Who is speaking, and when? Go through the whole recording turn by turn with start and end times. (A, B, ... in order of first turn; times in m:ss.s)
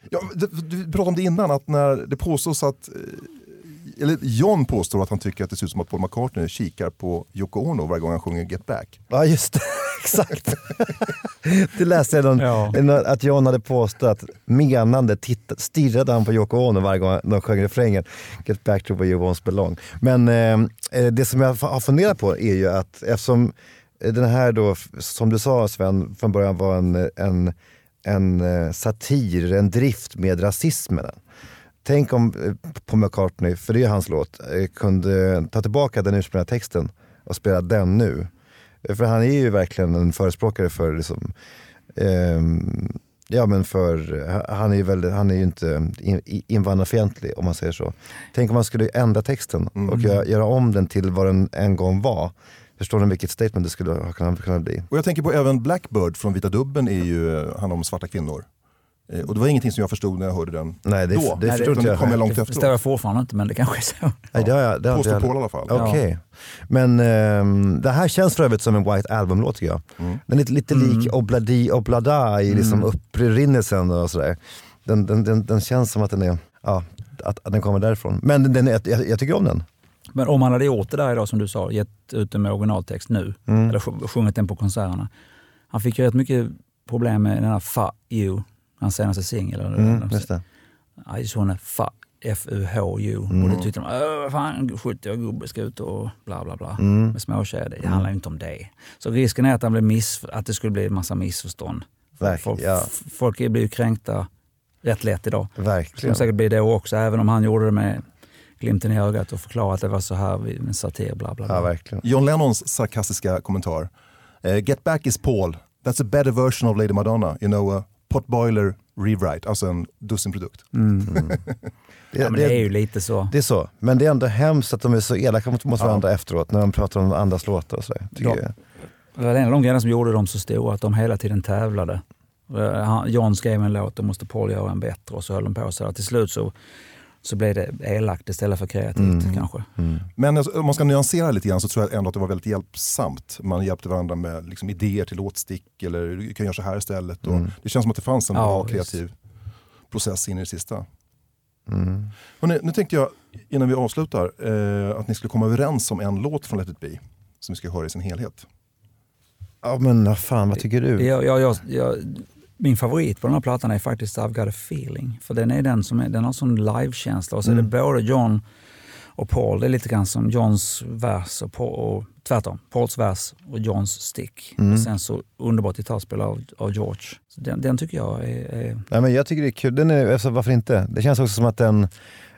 0:00.1-0:09.0 A
0:09.1-0:31.2 B
0:12.4-0:12.8 C
0:31.8-0:38.3 B
0:38.8-0:41.3 B
0:41.9-0:54.9 B
0:49.8-0:50.1 A
0:54.9-0:58.5 A
0:59.1-1:02.8 A
1:00.9-1:02.1 B
1:01.4-1:04.3 C
1:04.3-1:19.6 B
1:04.9-1:05.9 A
1:05.7-1:06.0 C
1:10.7-1:11.1 C
1:12.5-1:12.9 C
1:20.2-1:25.1 C
1:23.5-1:23.7 B
1:25.7-1:30.3 C
1:29.7-1:30.4 B
1:31.0-1:44.3 C
1:33.3-1:33.6 B
1:36.8-1:37.2 B
1:42.2-1:42.9 B
1:44.8-1:48.0 C
1:45.6-1:46.3 B
1:48.6-1:51.7 C
1:51.5-1:52.0 B
1:52.0-1:53.9 A
1:54.4-2:01.4 A
2:00.7-2:01.2 C
2:01.1-2:01.4 B
2:02.1-2:02.7 B
2:02.2-2:03.3 C
2:03.3-2:08.5 B
2:08.2-2:08.4 C
2:09.2-2:16.5 C
2:17.2-2:19.7 C
2:19.0-2:20.1 B
2:20.2-2:29.1 A
2:28.4-2:29.0 C
2:29.9-2:30.9 A
2:31.7-2:32.1 B
2:32.4-2:38.5 A
2:39.6-2:41.1 B
2:41.0-2:48.4 C
2:49.2-2:58.9 C
2:54.6-2:54.9 B
2:58.9-3:01.9 B